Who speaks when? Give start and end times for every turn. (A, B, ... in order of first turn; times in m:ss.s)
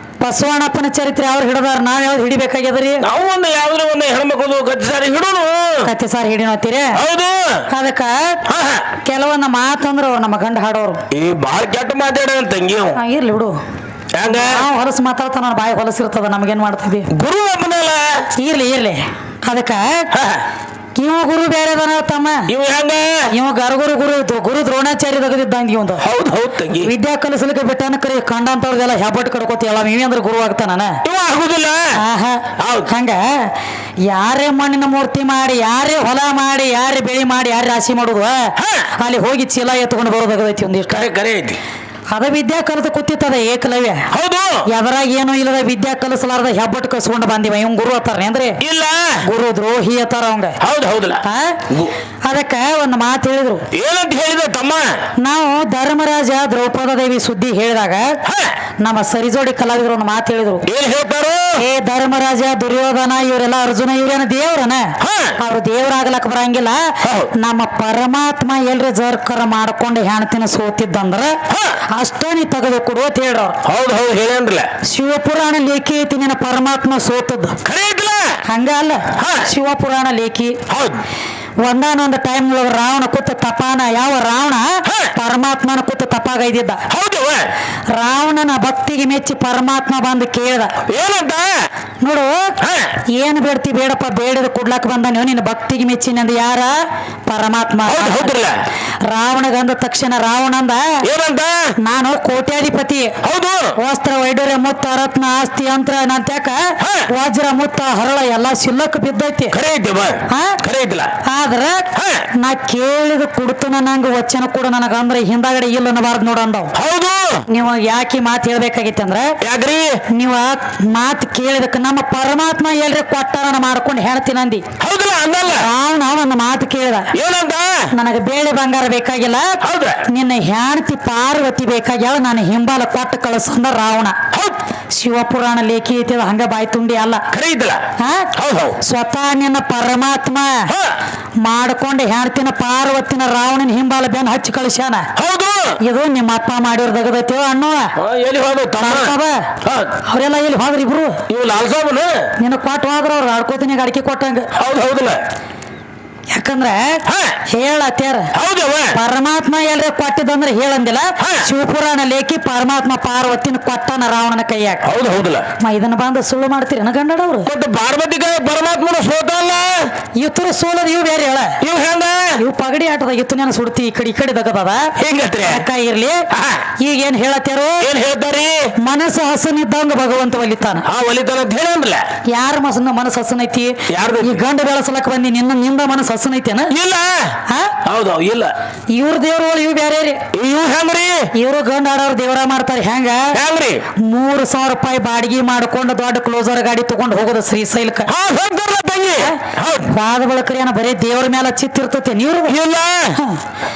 0:00.2-0:03.0 A
0:03.0-0:05.9 B
0:05.8-0:07.0 A
0:07.0-0:07.7 B
0:07.7-0:08.4 A
0:08.5-0:08.9 B
0:09.0-0:11.0 A
0:11.1-0:13.0 B
0:13.0-0:13.6 A
0:14.2-0:14.6 B
0:14.3-0:17.1 A
0:17.1-0:18.3 B
0:18.4-0:20.1 A
0:20.1-0:20.4 B
0:21.0-0:22.5 A
0:22.5-0:23.3 B
0:23.3-0:26.0 A
0:26.0-0:26.9 B
0:26.8-0:31.0 A
0:31.0-0:32.0 B
0:32.0-0:33.5 A
0:32.6-0:32.9 B
0:34.1-0:41.1 A
0:38.6-0:38.9 B
0:40.9-0:41.6 B
0:42.1-0:44.1 A
0:44.1-0:44.6 B
0:44.7-0:48.6 A
0:48.6-0:49.2 B
0:49.2-0:50.6 A
0:50.6-0:51.9 B
0:51.2-0:51.6 A
0:52.2-0:53.6 A
0:53.7-0:55.0 B
0:55.2-0:58.2 A
0:58.2-0:58.6 B
0:58.8-1:00.6 A
1:00.7-1:01.6 B
1:01.6-1:11.4 A
1:05.0-1:05.4 B
1:07.0-1:07.3 B
1:11.5-1:11.8 B
1:11.9-1:13.6 A
1:13.6-1:14.7 B
1:14.9-1:17.6 A
1:17.6-1:18.4 B
1:18.5-1:20.6 A
1:19.2-1:19.5 B
1:20.7-1:21.0 B
1:21.6-1:26.8 A
1:24.9-1:25.1 B
1:26.9-1:27.5 B
1:27.9-1:30.7 A
1:30.9-1:31.7 B
1:32.0-1:32.6 A
1:32.6-1:32.9 B
1:33.1-1:36.8 A
1:37.3-1:38.3 A
1:37.9-1:38.6 B
1:39.1-1:40.8 A
1:41.0-1:41.7 B
1:41.8-1:43.2 A
1:43.2-1:43.7 B
1:43.8-1:49.6 A
1:46.8-1:47.1 B
1:49.5-1:51.1 B
1:50.3-1:50.6 A
1:51.2-1:56.7 A
1:51.9-1:52.3 B
1:56.8-1:57.4 B
1:57.5-1:59.4 A
1:59.4-2:00.0 B
2:00.1-2:04.7 A
2:04.8-2:05.7 B
2:05.5-2:07.1 A
2:07.1-2:07.9 B
2:07.9-2:09.6 A
2:09.6-2:10.0 B
2:10.1-2:14.2 A
2:14.3-2:14.6 B
2:15.0-2:17.2 A
2:17.3-2:17.8 B
2:18.0-2:18.3 A
2:18.4-2:18.8 B
2:18.8-2:20.7 A
2:20.7-2:21.0 B
2:21.4-2:25.1 A
2:25.2-2:25.8 B
2:25.8-2:27.9 A
2:28.0-2:30.0 B
2:28.8-2:29.5 A
2:30.1-2:31.2 A
2:31.3-2:32.3 B
2:32.4-2:34.5 A
2:34.6-2:35.2 B
2:36.3-2:37.0 A
2:37.1-2:37.4 B
2:37.5-2:38.3 A
2:38.3-2:39.0 B
2:38.9-2:44.8 A
2:41.2-2:41.5 B
2:44.8-2:45.5 B
2:45.6-2:47.5 A
2:47.5-2:49.9 B
2:50.2-2:51.6 A
2:51.6-2:52.4 B
2:52.4-2:54.9 A
2:55.0-2:55.7 B
2:55.4-2:56.2 A
2:56.3-2:56.6 B
2:56.8-2:57.9 A
2:57.8-2:58.7 B
2:58.8-3:00.9 A
3:00.9-3:02.0 B
3:02.3-3:06.7 A
3:03.9-3:04.4 B
3:06.7-3:08.5 B
3:07.5-3:07.7 A
3:08.9-3:10.2 A
3:10.3-3:11.3 B
3:11.4-3:13.4 A
3:13.3-3:13.8 B
3:14.1-3:18.1 A
3:18.1-3:19.9 B
3:19.9-3:22.6 A
3:22.5-3:23.2 B
3:23.2-3:23.4 A